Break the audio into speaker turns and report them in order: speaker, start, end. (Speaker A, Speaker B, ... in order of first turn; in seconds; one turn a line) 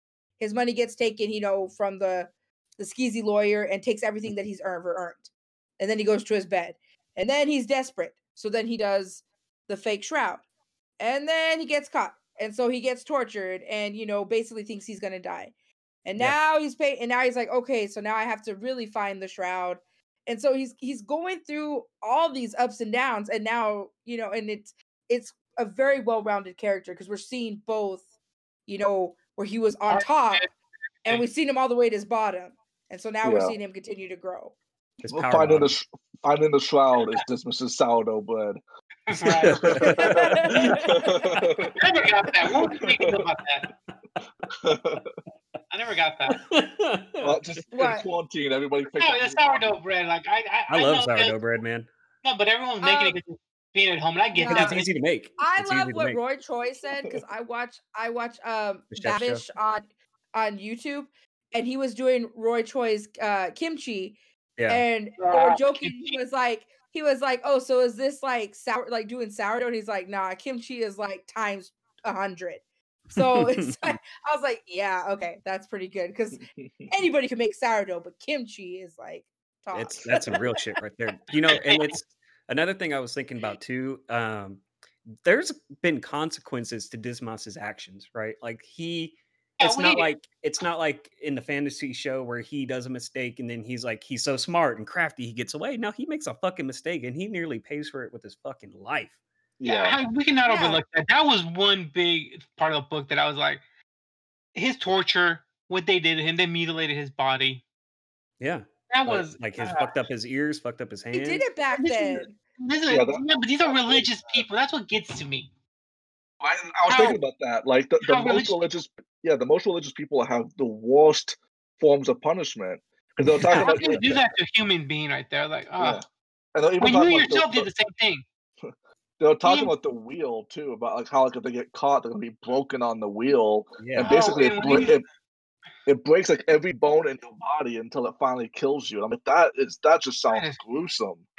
Speaker A: 0.4-10.4
Speaker A: 11.0-15.5
Speaker A: 16.0-28.0
Speaker A: 28.7-30.4
Speaker B: 29.9-30.5
Speaker A: 31.0-34.5
Speaker C: 33.2-33.5
Speaker D: 35.0-35.7
Speaker C: 35.1-38.6
Speaker B: 39.1-39.9
Speaker D: 39.1-40.8
Speaker C: 39.6-41.7
Speaker A: 39.8-41.5
Speaker D: 41.3-41.7
Speaker B: 41.8-43.7
Speaker C: 42.5-43.2
Speaker C: 44.5-45.0
Speaker B: 45.7-46.4
Speaker D: 46.3-47.6
Speaker C: 47.2-49.7
Speaker A: 47.7-48.1
Speaker B: 49.0-51.4
Speaker D: 50.7-51.9
Speaker B: 52.2-54.8
Speaker A: 52.8-53.2
Speaker A: 54.3-54.8
Speaker D: 54.5-56.2
Speaker A: 55.4-64.2
Speaker D: 58.9-59.4
Speaker D: 64.6-64.8
Speaker A: 64.7-72.6
Speaker B: 65.2-66.1
Speaker A: 73.1-80.4
Speaker D: 73.2-73.7
Speaker C: 76.6-76.9
Speaker D: 79.7-84.6
Speaker B: 81.7-82.0
Speaker D: 85.2-99.2
Speaker B: 89.6-90.1
Speaker C: 99.6-100.0
Speaker B: 99.6-103.6
Speaker A: 100.5-100.8
Speaker B: 104.5-107.6
Speaker D: 108.4-111.5
Speaker B: 108.9-109.9
Speaker A: 111.1-112.3
Speaker B: 111.8-115.5
Speaker C: 112.9-114.4
Speaker C: 116.4-124.1
Speaker B: 116.8-117.2
Speaker B: 118.0-118.6
Speaker D: 123.2-124.2
Speaker B: 123.5-126.0
Speaker C: 125.8-126.0
Speaker C: 126.5-127.7
Speaker B: 126.8-128.2
Speaker C: 128.6-135.0
Speaker B: 129.4-129.7
Speaker D: 133.8-134.1
Speaker B: 134.0-135.0
Speaker C: 135.8-141.3
Speaker B: 140.3-140.6